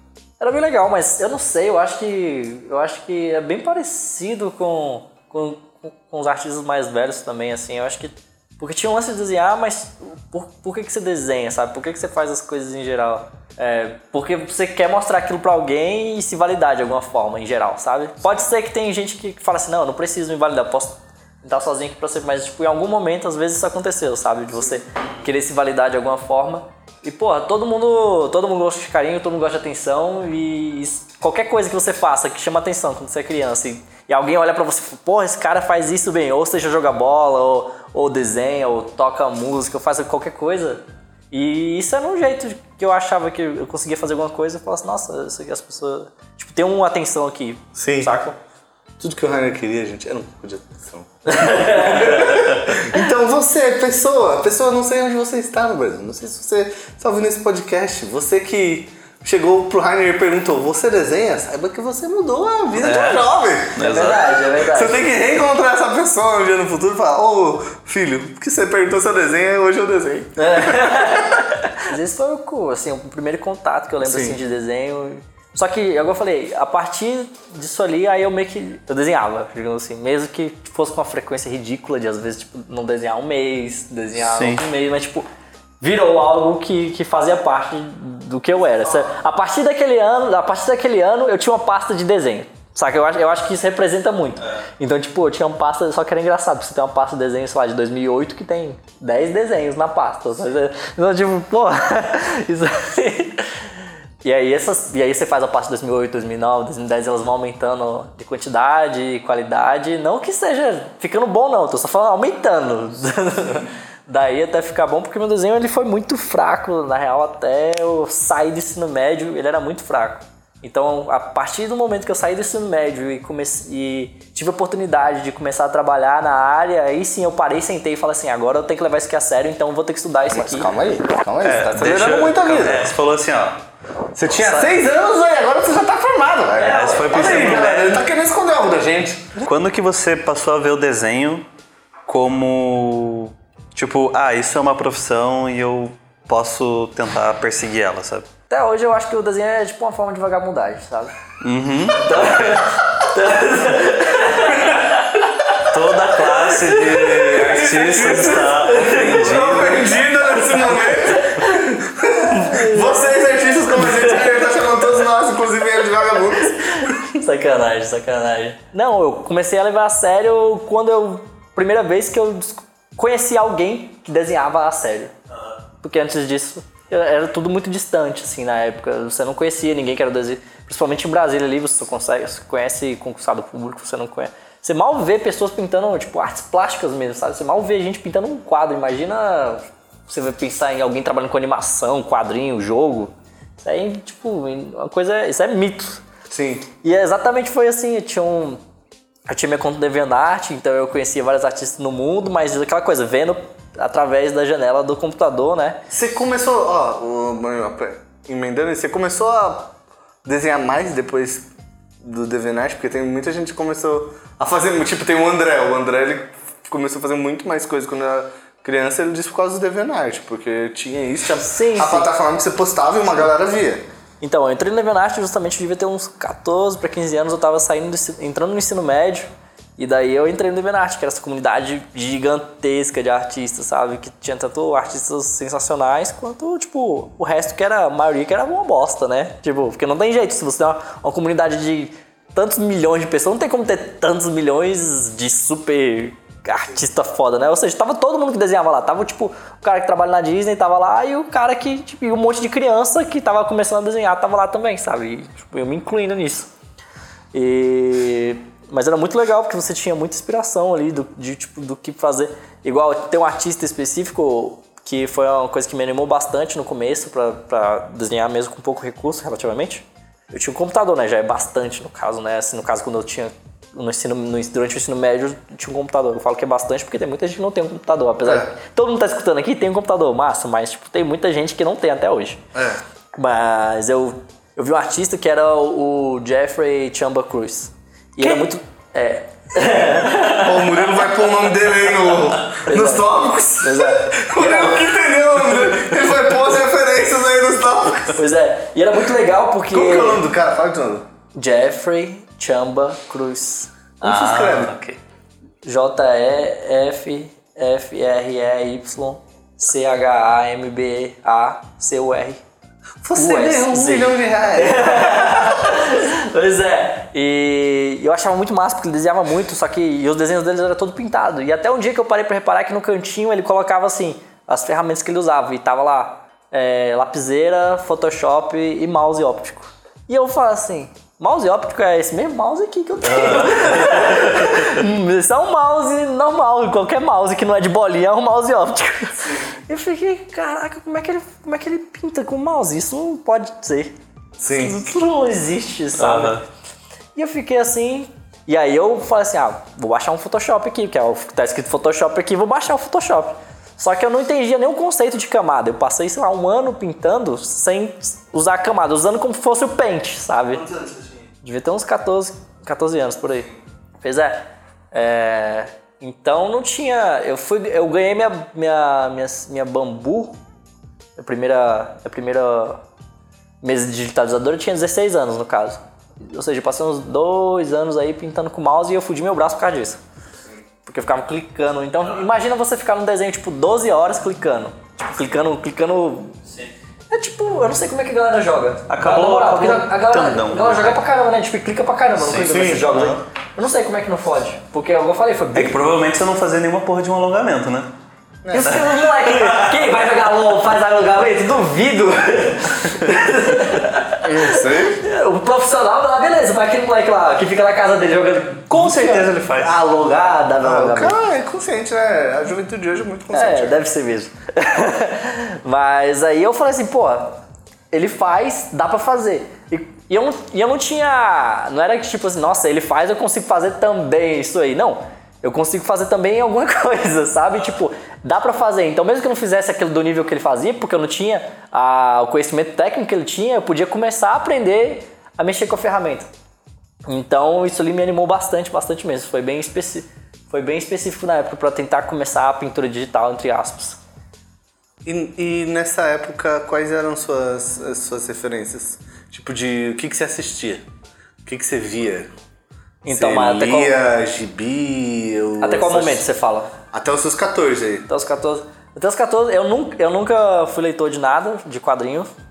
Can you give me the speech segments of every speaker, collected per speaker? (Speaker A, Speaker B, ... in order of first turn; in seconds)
Speaker A: 0.4-48.4, 51.3-53.0, 63.8-65.0, 70.4-85.2, 85.8-130.7, 136.6-137.9, 148.5-151.1, 152.0-157.7, 158.2-159.2, 160.4-163.2, 163.8-164.2, 166.4-175.1, 175.8-196.0, 196.8-198.6, 199.3-205.8, 221.2-222.1, 224.2-256.5, 257.3-282.4, 283.1-291.1, 292.5-293.1, 293.6-294.9, 298.1-300.2, 301.4-304.6, 305.6-312.4, 313.1-343.9, 344.5-346.4, 347.1-360.7, 361.4-363.5, 364.0-370.4, 371.2-372.8, 373.6-380.0, 380.9-386.3, 387.1-395.8, 398.5-411.2, 413.3-417.4, 417.9-436.3, 437.1-444.0, 453.0-454.0, 455.6-456.7, 458.1-462.3
Speaker B: 47.8-48.1, 49.0-63.8, 64.5-71.4, 74.0-74.4, 130.3-132.9, 134.1-139.4, 157.2-167.0, 196.3-196.7, 205.9-211.5, 212.0-223.8, 278.2-278.5, 282.6-282.8, 289.6-298.2, 299.7-301.1, 304.0-304.8, 313.0-315.8, 344.4-344.8, 360.8-361.1, 392.3-393.2, 398.4-398.9, 404.2-405.1, 410.6-413.9, 445.1-450.9, 451.4-452.3, 453.1-456.2, 456.9-458.1
Speaker C: 62.8-64.3, 84.2-84.6, 131.4-133.6, 136.7-138.0, 139.4-141.5, 142.1-148.3, 151.4-152.7, 155.6-159.9, 304.1-304.8, 333.1-334.7, 346.0-346.4, 388.9-391.0, 392.2-393.1, 395.6-397.9, 398.6-399.7, 408.7-409.8